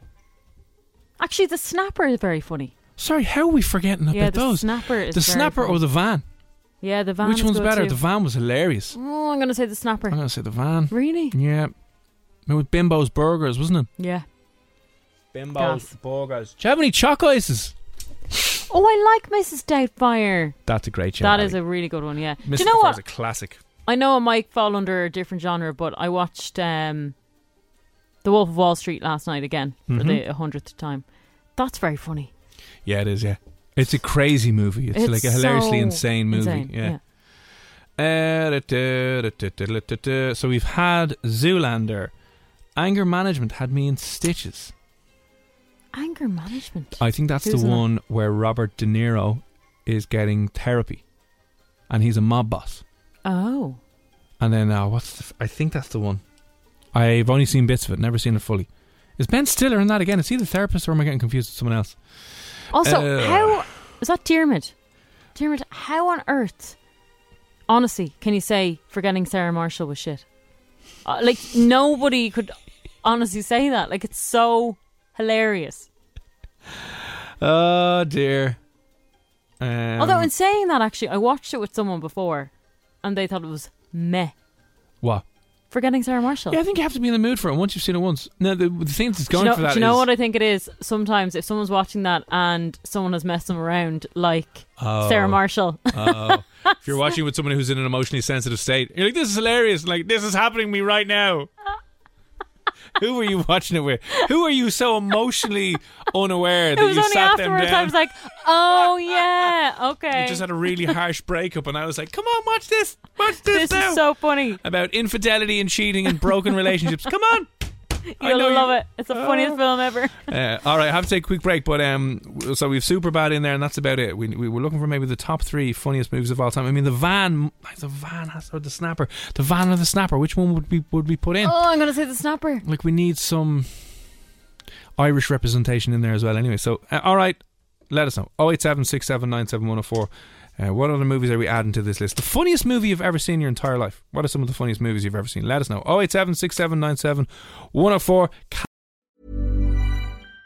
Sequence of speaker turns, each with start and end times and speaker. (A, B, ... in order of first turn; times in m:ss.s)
0:01.2-0:02.7 A
0:03.0-0:06.2 B
0:04.1-0:05.8 A
0:06.8-0:08.0 A
0:07.2-0:09.0 B
0:08.9-0:10.2 A
0:10.1-0:11.7 B
0:10.9-0:11.3 A
0:12.4-0:13.9 B
0:14.0-0:14.2 A
0:15.3-0:17.7 B
0:15.6-0:15.9 A
0:18.7-0:20.6 A
0:20.6-0:21.6 B
0:21.2-0:23.0 A
0:22.4-0:23.6 B
0:23.8-0:27.1 A
0:28.2-0:31.0 A
0:29.9-0:30.2 B
0:31.6-0:32.3 A
0:32.8-0:37.0 B
0:34.9-0:37.0 A
0:38.0-0:42.1 B
0:42.8-0:44.7 B
0:45.9-0:47.8 A
0:47.0-0:51.0 B
0:51.9-0:52.8 B
0:53.2-0:53.8 A
0:54.4-0:56.2 B
0:56.9-0:58.7 B
0:59.2-1:02.0 B
1:02.7-1:04.7 A
1:02.7-1:03.6 B
1:05.3-1:06.8 A
1:07.7-1:10.2 A
1:11.0-1:15.9 A
1:17.4-1:18.6 B
1:19.6-1:20.3 B
1:20.0-1:22.5 A
1:23.0-1:24.3 A
1:25.7-1:26.6 A
1:26.5-1:30.0 B
1:29.3-1:36.8 A
1:34.8-1:41.5 B
1:43.0-1:47.9 B
1:46.8-1:50.4 A
1:50.1-1:54.0 B
1:53.5-1:54.6 A
1:54.6-1:57.5 B
1:58.1-2:00.3 A
1:58.2-1:59.6 B
2:00.2-2:11.6 B
2:11.4-2:12.6 A
2:12.6-2:13.9 B
2:15.0-2:17.4 B
2:17.9-2:28.6 B